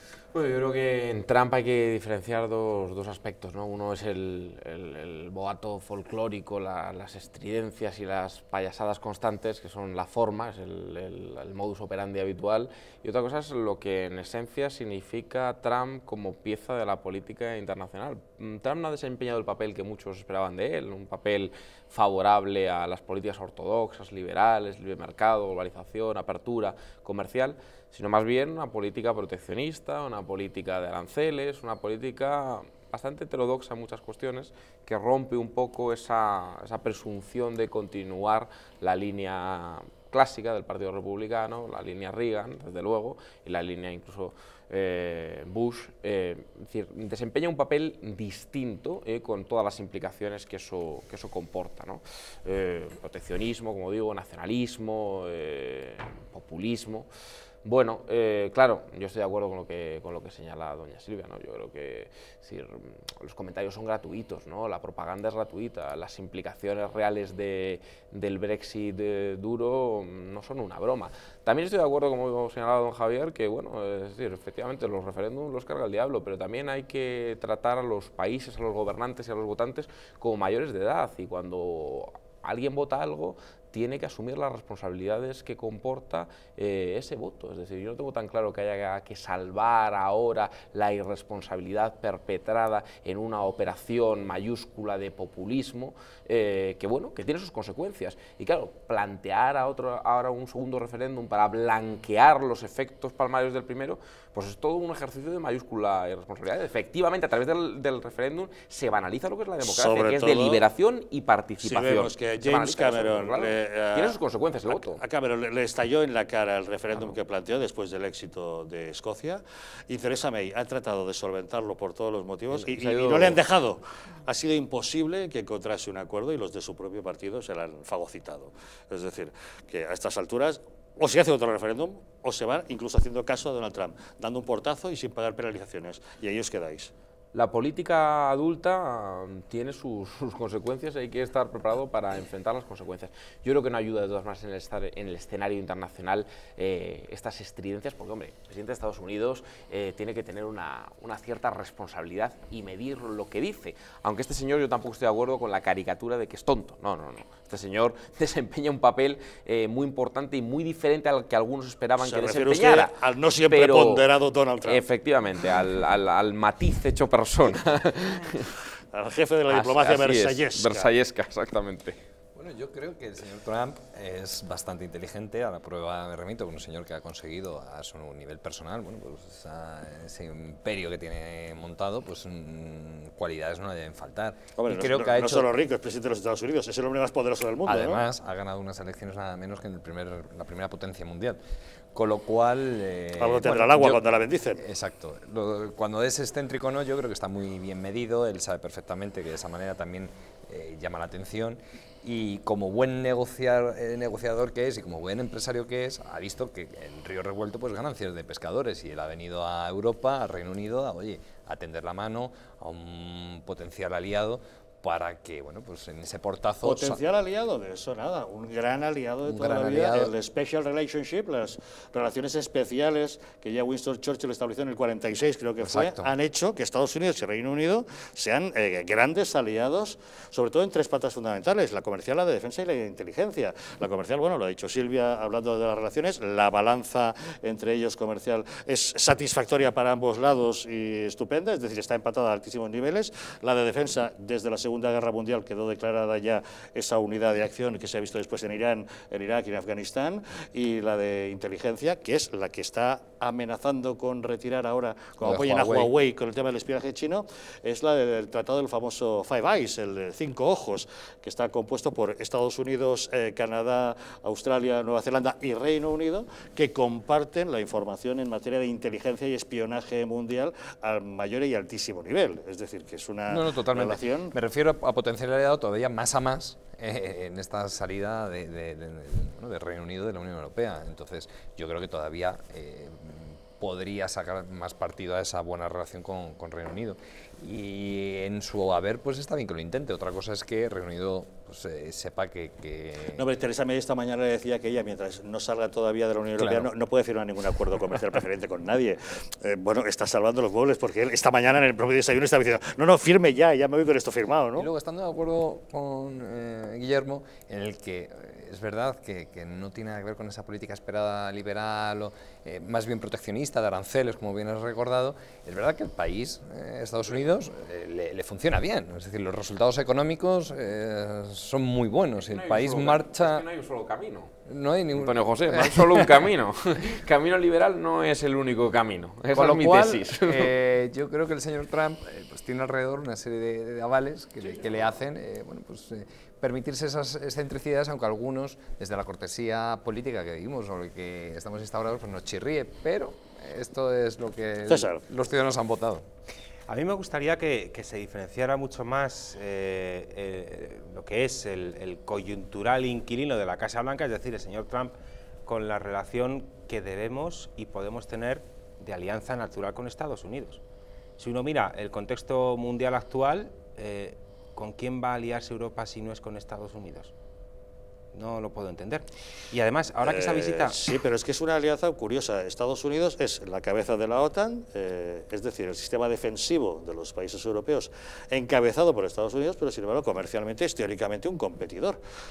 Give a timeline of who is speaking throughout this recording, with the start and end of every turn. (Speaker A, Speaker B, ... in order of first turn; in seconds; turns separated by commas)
Speaker A: 0.3-57.1, Speaker A: 57.6-115.0, Speaker B: 109.6-110.6, Speaker B: 111.6-136.9, Speaker A: 122.5-123.4, Speaker A: 137.3-164.1, Speaker B: 162.0-164.8, Speaker A: 164.6-168.5, Speaker B: 168.9-170.9, Speaker A: 169.5-172.0, Speaker C: 172.3-185.5, Speaker B: 184.6-188.0, Speaker C: 187.7-191.4, Speaker C: 191.9-194.0, Speaker B: 193.2-194.6, Speaker C: 194.5-217.0, Speaker B: 216.6-274.3, Speaker C: 219.3-220.1, Speaker C: 225.6-226.1, Speaker C: 255.2-255.9, Speaker C: 273.3-293.2, Speaker B: 293.2-304.7, Speaker C: 296.4-296.7, Speaker C: 304.6-323.4, Speaker A: 322.2-324.3, Speaker C: 324.4-326.3, Speaker A: 324.9-330.5, Speaker C: 329.3-346.0, Speaker B: 344.7-345.0, Speaker D: 346.7-354.9, Speaker D: 355.4-360.6, Speaker D: 361.2-367.1, Speaker D: 368.1-370.8, Speaker B: 370.0-382.0